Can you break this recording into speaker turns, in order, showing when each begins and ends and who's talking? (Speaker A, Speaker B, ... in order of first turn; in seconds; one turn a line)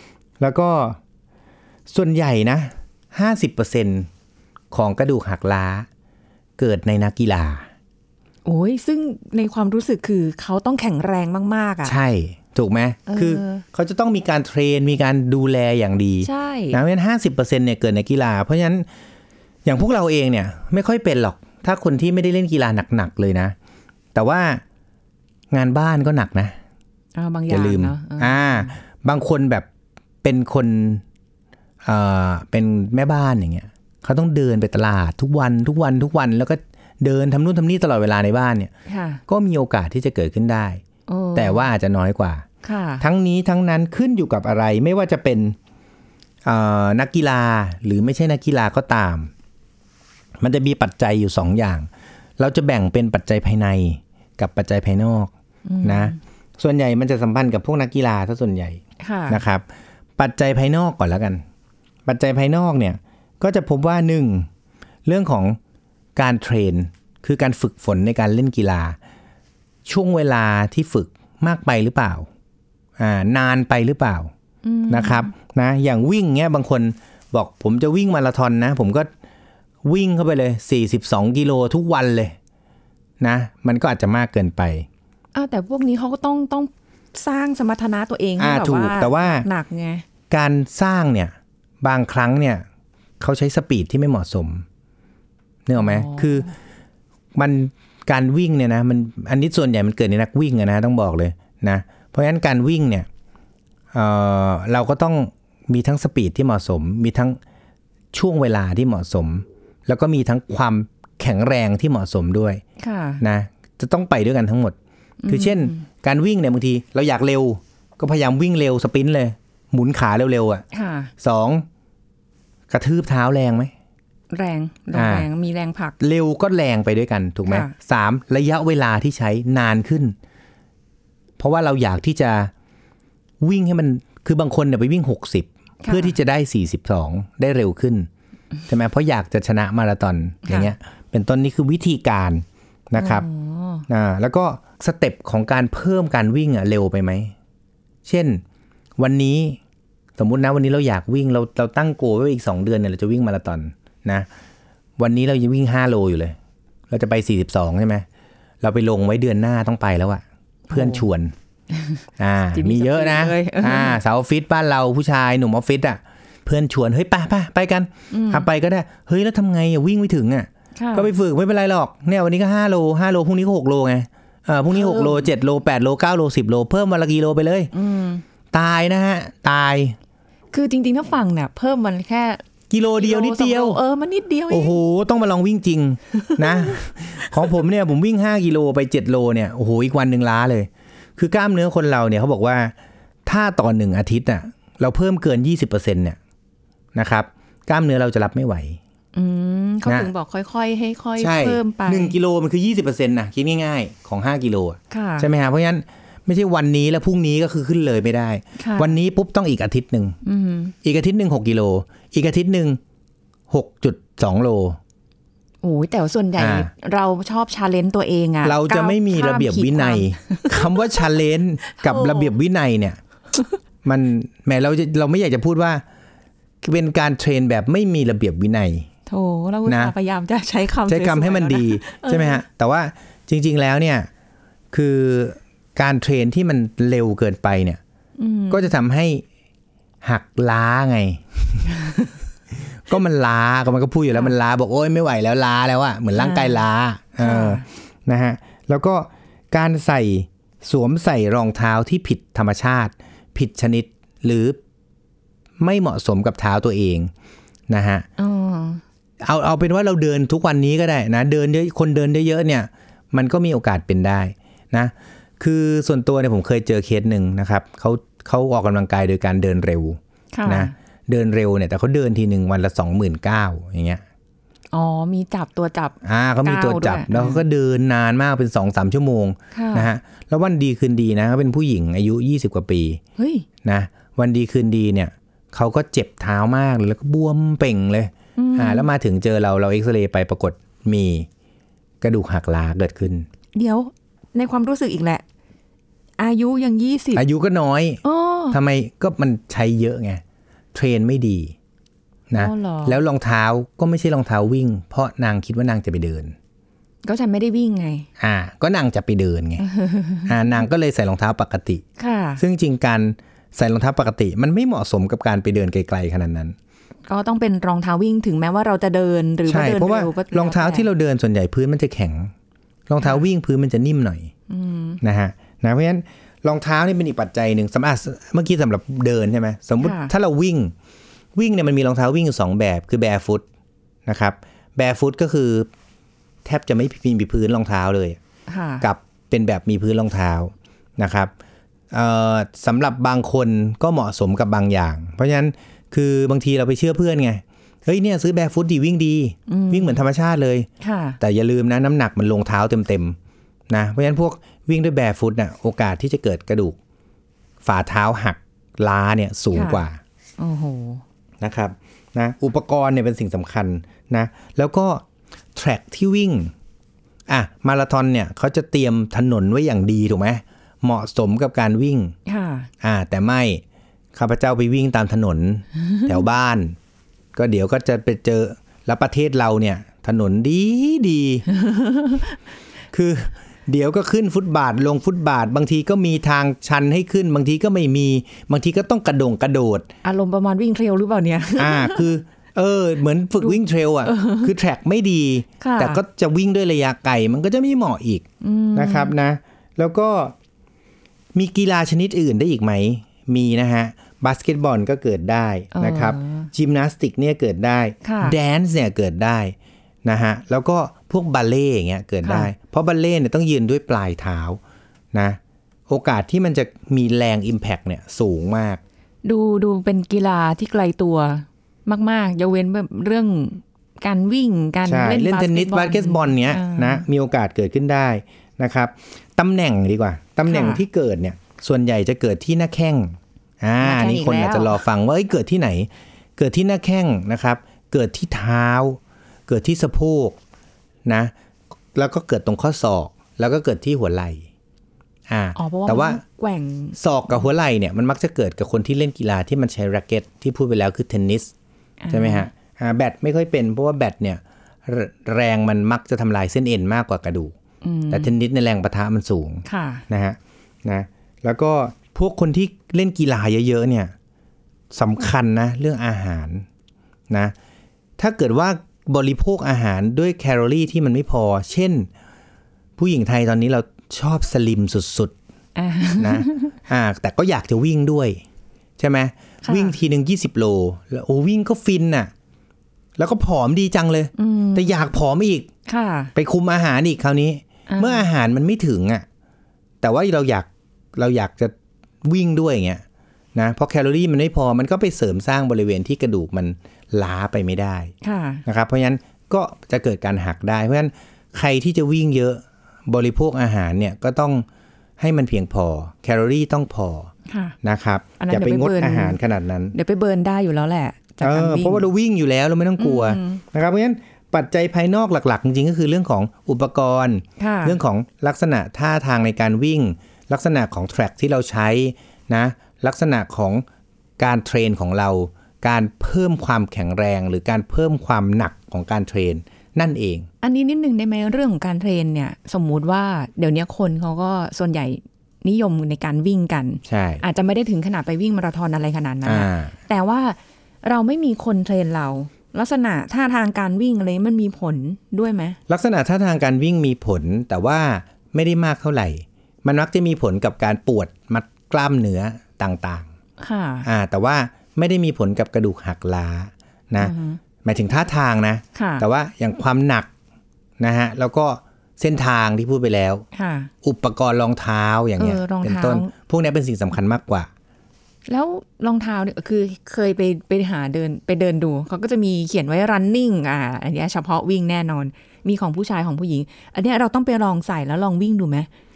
Speaker A: 0.4-1.0
Speaker A: 1.9-4.1
Speaker A: 4.7-5.9
Speaker A: 6.6-7.7
Speaker B: 8.5-12.0
Speaker A: 11.8-18.9
Speaker B: 13.1-13.6
Speaker B: 16.2-16.8
Speaker A: 19.6-23.6
Speaker A: 24.1-24.6
Speaker A: 25.5-26.6
Speaker B: 27.2-28.8
Speaker A: 27.5-29.7
Speaker A: 30.2-31.0
Speaker A: 31.8-38.7
Speaker B: 38.9-39.2
Speaker A: 39.3-40.8
Speaker B: 41.1-41.7
Speaker A: 41.4-42.5
Speaker B: 42.6-43.0
Speaker A: 43.0-45.6
Speaker A: 46.5-49.3
Speaker A: 50.4-51.9
Speaker A: 52.4-55.3
Speaker B: 55.7-56.2
Speaker A: 55.8-59.7
Speaker B: 59.0-59.4
Speaker A: 60.2-61.4
Speaker A: 62.1-64.5
Speaker A: 65.0-65.6
Speaker A: 66.2-69.0
Speaker A: 69.9-72.3
Speaker A: 73.0-74.3
Speaker B: 74.6-75.3
Speaker A: 74.9-79.1
Speaker A: 79.8-82.4
Speaker A: 83.2-84.9
Speaker B: 85.3-90.0
Speaker A: 88.4-89.5
Speaker A: 90.3-92.6
Speaker A: 93.2-94.7
Speaker A: 95.7-96.5
Speaker B: 95.8-96.5
Speaker A: 97.3-103.1
Speaker A: 103.9-107.4
Speaker A: 108.1-112.6
Speaker B: 112.8-113.2
Speaker A: 113.2-120.7
Speaker B: 115.2-115.8
Speaker B: 120.7-121.1
Speaker A: 121.2-121.7
Speaker A: 122.7-123.7
Speaker B: 124.3-126.0
Speaker A: 124.9-125.3
Speaker A: 126.0-130.2
Speaker B: 127.5-127.7
Speaker A: 131.4-132.5
Speaker A: 133.4-138.1
Speaker B: 135.8-136.2
Speaker A: 138.7-143.3
Speaker B: 140.5-140.7
Speaker B: 142.9-143.9
Speaker A: 143.9-147.3
Speaker A: 148.1-148.4
Speaker A: 149.0-149.6
Speaker A: 150.2-154.3
Speaker A: 155.0-156.4
Speaker A: 156.9-158.1
Speaker A: 158.6-161.3
Speaker B: 160.7-161.1
Speaker A: 162.2-177.7
Speaker B: 162.5-164.0
Speaker B: 168.1-168.5
Speaker B: 170.8-171.1
Speaker B: 174.7-175.3
Speaker B: 177.7-178.2
Speaker A: 178.5-180.0
Speaker B: 180.5-182.4
Speaker A: 182.7-183.8
Speaker B: 183.0-184.8
Speaker A: 184.5-192.8
Speaker B: 186.2-186.8
Speaker A: 193.3-196.2
Speaker A: 196.9-198.8
Speaker B: 199.2-202.2
Speaker A: 199.8-200.1
Speaker A: 201.2-210.2
Speaker B: 204.9-205.3
Speaker B: 208.6-208.9
Speaker B: 210.2-210.8
Speaker A: 210.8-212.8
Speaker A: 213.5-214.8
Speaker B: 215.6-220.8
Speaker A: 216.4-216.7
Speaker A: 218.4-223.0
Speaker B: 221.7-222.3
Speaker A: 223.8-225.8
Speaker A: 226.6-228.9
Speaker B: 229.1-232.4
Speaker A: 229.7-229.9
Speaker A: 230.9-234.1
Speaker A: 234.7-237.8
Speaker B: 238.2-238.7
Speaker A: 238.5-239.2
Speaker A: 240.0-241.7
Speaker B: 241.8-242.1
Speaker A: 242.9-254.6
Speaker B: 246.2-246.6
Speaker B: 247.2-247.6
Speaker A: 255.6-257.1
Speaker A: 257.7-258.1
Speaker B: 258.2-258.8
Speaker A: 259.2-274.0
Speaker B: 270.3-270.7
Speaker B: 274.7-277.4
Speaker A: 276.0-283.0
Speaker B: 279.5-279.9
Speaker B: 283.2-283.5
Speaker A: 283.6-291.3
Speaker B: 288.4-288.9
Speaker A: 292.0-293.3
Speaker B: 293.6-295.2
Speaker B: 296.2-297.2
Speaker A: 297.1-300.2
Speaker B: 298.0-298.6
Speaker A: 300.7-301.6
Speaker A: 302.3-306.4
Speaker B: 302.4-303.0
Speaker B: 307.1-308.1
Speaker A: 308.2-309.7
Speaker B: 309.6-310.3
Speaker A: 310.2-311.8
Speaker B: 312.0-312.4
Speaker A: 312.4-316.6
Speaker B: 317.1-320.9
Speaker A: 319.5-322.3
Speaker A: 322.9-324.3
Speaker B: 323.0-323.2
Speaker B: 324.5-325.0
Speaker A: 325.0-330.7
Speaker B: 329.8-330.1
Speaker A: 331.4-333.4
Speaker A: 334.1-335.7
Speaker A: 336.4-338.2
Speaker B: 338.5-338.9
Speaker A: 338.8-341.3
Speaker A: 341.9-350.7
Speaker B: 349.5-350.0
Speaker B: 350.8-351.2
Speaker A: 351.2-353.2
Speaker A: 353.7-356.8
Speaker A: 357.6-360.0
Speaker B: 359.5-359.8
Speaker B: 360.4-361.0
Speaker A: 361.4-365.0
Speaker A: 365.6-366.5
Speaker A: 367.3-372.1
Speaker B: 372.3-372.7
Speaker A: 372.8-373.6
Speaker A: 374.1-376.8
Speaker A: 377.4-381.5
Speaker B: 381.5-382.4
Speaker A: 382.9-389.9
Speaker B: 390.0-392.1
Speaker A: 391.6-400.3
Speaker B: 393.4-394.5
Speaker B: 395.6-396.0
Speaker B: 398.4-399.1
Speaker A: 401.3-414.6
Speaker B: 405.7-406.5
Speaker B: 408.0-408.4
Speaker B: 412.2-412.5
Speaker A: 415.1-418.8
Speaker B: 419.2-427.1
Speaker A: 424.9-440.4
Speaker B: 430.5-430.8
Speaker B: 433.8-434.8
Speaker A: 441.1-441.3
Speaker A: 441.9-444.4
Speaker A: 445.3-446.2
Speaker B: 445.6-447.0
Speaker A: 447.0-451.5
Speaker B: 452.0-452.5
Speaker A: 452.1-457.5
Speaker B: 457.8-458.3
Speaker A: 458.1-464.1
Speaker B: 459.7-460.1
Speaker A: 464.9-466.7
Speaker A: 468.2-472.1
Speaker A: 473.0-475.3
Speaker B: 475.8-476.8
Speaker A: 476.2-478.4
Speaker A: 479.0-482.3
Speaker B: 479.6-480.0
Speaker A: 483.2-485.7
Speaker B: 484.4-484.9
Speaker B: 485.9-486.3
Speaker A: 486.4-489.2
Speaker B: 487.9-488.3
Speaker A: 490.0-493.0
Speaker A: 493.6-498.1
Speaker B: 498.2-498.6
Speaker A: 498.7-504.6
Speaker A: 505.2-507.3
Speaker B: 507.5-507.8
Speaker A: 507.8-509.9
Speaker B: 508.4-509.4
Speaker B: 509.9-512.1
Speaker A: 511.4-523.8
Speaker B: 513.0-513.6
Speaker B: 517.6-518.0
Speaker A: 524.4-530.5
Speaker B: 530.6-545.8
Speaker A: 537.1-537.4
Speaker A: 539.5-539.9
Speaker A: 545.9-553.3
Speaker B: 553.6-554.1
Speaker A: 554.0-560.3
Speaker B: 557.2-557.6
Speaker B: 559.0-559.3
Speaker A: 561.0-563.4
Speaker B: 563.5-563.9
Speaker A: 564.0-567.7
Speaker B: 565.4-566.3
Speaker B: 568.5-578.9